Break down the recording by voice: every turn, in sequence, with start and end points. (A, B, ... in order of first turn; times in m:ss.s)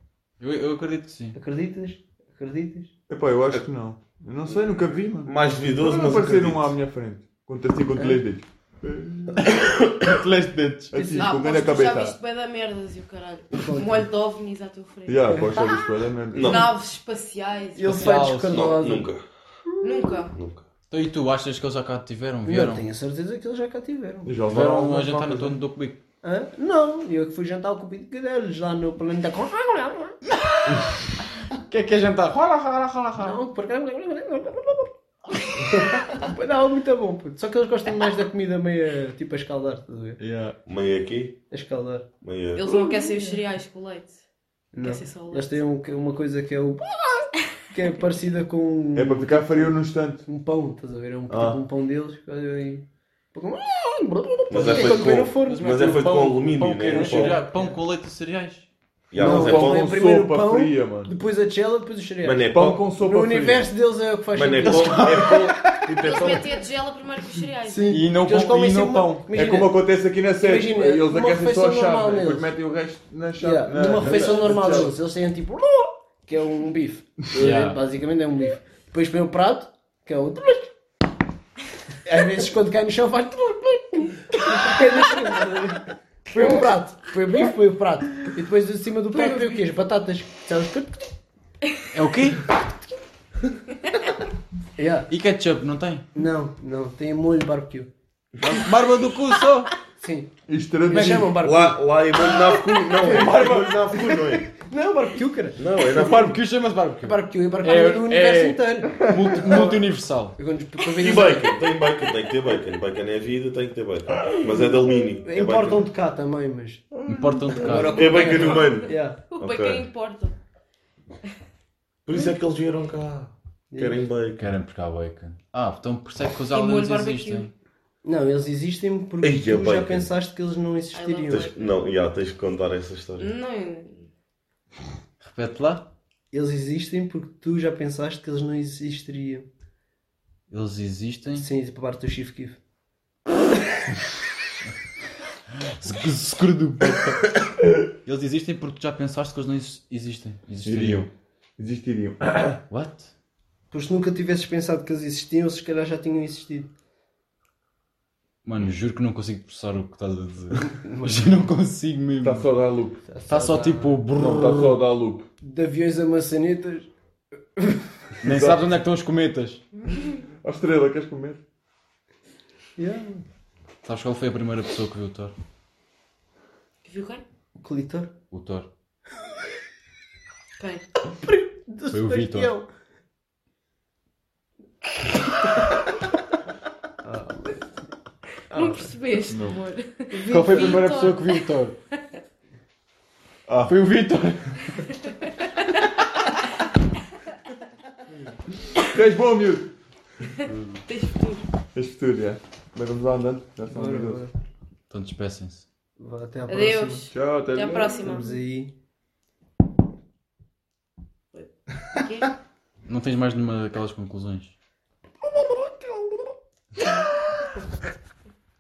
0:00.4-0:01.4 A
0:01.3-0:02.9 B
0:03.1-0:09.5 C
0:05.2-0:06.7 D
0:10.0-0:11.0 A
0:10.9-0:12.2 C
0:10.9-0:11.4 B
0:11.2-0:15.6 E
0:13.5-0:14.1 B
0:15.1-0:16.6 C
0:15.3-0:16.7 B
0:16.3-0:16.7 D
0:16.4-0:18.2 E
0:17.8-0:19.1 B
0:17.8-0:18.6 A
0:18.3-0:19.2 D
0:19.7-0:20.2 B
0:19.8-0:20.3 E
0:20.3-0:20.6 D
0:20.9-0:22.9 A
0:22.4-0:24.4 B
0:24.2-0:25.6 C
0:24.5-0:26.0 A
0:26.2-0:30.2 B
0:30.3-0:30.9 A
0:31.4-0:33.4 A
0:33.2-0:34.9 B
0:35.4-0:40.2 B
0:40.2-0:40.6 A
0:40.6-0:41.4 D
0:41.5-0:42.1 B
0:42.2-0:42.6 D
0:42.6-0:44.2 E
0:42.6-0:43.4 B
0:44.7-0:56.1 B
0:44.8-0:45.6 E
0:48.9-0:50.2 C
0:51.3-0:51.6 D
0:54.5-0:57.4 D
0:54.6-0:58.7 A
0:56.9-0:57.8 B
0:59.1-0:59.9 D
0:59.2-1:06.4 B
0:59.2-1:01.1 C
1:02.2-1:02.8 D
1:02.5-1:03.7 C
1:04.3-1:06.5 D
1:04.6-1:05.8 A
1:06.0-1:08.0 E
1:07.6-1:12.5 B
1:07.9-1:09.3 A
1:09.3-1:15.0 C
1:13.4-1:20.7 B
1:14.0-1:14.9 D
1:17.3-1:17.8 A
1:22.0-1:31.0 B
1:29.1-1:29.6 E
1:31.9-1:32.5 A
1:34.8-1:35.1 B
1:35.1-1:36.0 A
1:36.1-1:37.9 B
1:38.4-1:39.7 A
1:40.0-1:40.3 B
1:40.5-1:41.4 C
1:40.8-1:45.7 B
1:41.0-1:44.5 D
1:42.9-1:43.7 A
1:45.6-1:46.4 D
1:45.9-1:50.4 A
1:47.0-1:49.8 B
1:50.4-1:51.6 B
1:50.9-1:55.8 D
1:55.2-1:59.2 B
1:57.0-1:58.2 A
1:57.8-1:59.8 D
1:57.8-2:00.3 E
2:02.0-2:04.5 D
2:03.7-2:04.1 B
2:04.4-2:07.5 A
2:06.5-2:07.5 E
2:08.0-2:11.7 B
2:09.2-2:10.1 D
2:10.9-2:11.8 E
2:11.3-2:13.3 D
2:13.2-2:14.1 E
2:15.2-2:15.9 A
2:16.3-2:19.5 B
2:20.5-2:21.5 A
2:21.3-2:22.6 B
2:25.8-2:27.3 A
2:28.0-2:31.1 A
2:30.6-2:32.6 C
2:32.7-2:33.1 A
2:33.7-2:36.7 B
2:38.4-2:42.5 A
2:40.6-2:41.3 B
2:42.2-2:43.0 C
2:43.1-2:44.8 B
2:43.3-2:44.6 A
2:44.1-2:45.3 C
2:45.4-2:46.9 B
2:47.6-2:47.9 B
2:48.2-2:48.6 C
2:48.2-2:49.6 A
2:50.4-2:51.4 C
2:52.8-2:53.2 B
2:53.8-2:55.3 A
2:56.8-2:57.2 E
2:57.6-2:58.1 B
2:58.3-2:58.7 A
3:00.6-3:00.8 E
3:01.2-3:02.6 B
3:01.9-3:02.5 A
3:07.0-3:07.6 B
3:08.5-3:08.9 B
3:08.5-3:12.0 E
3:09.3-3:09.6 C
3:10.1-3:10.8 B
3:10.3-3:11.7 A
3:13.5-3:13.8 C
3:13.6-3:14.8 A
3:15.0-3:15.8 E
3:18.8-3:19.7 C
3:20.4-3:21.4 E
3:20.4-3:20.8 C
3:21.7-3:24.2 C
3:23.7-3:24.3 B
3:24.9-3:25.6 A
3:26.0-3:28.7 B
3:26.5-3:28.4 E
3:27.1-3:27.9 C
3:31.3-3:32.3 E
3:32.9-3:34.5 A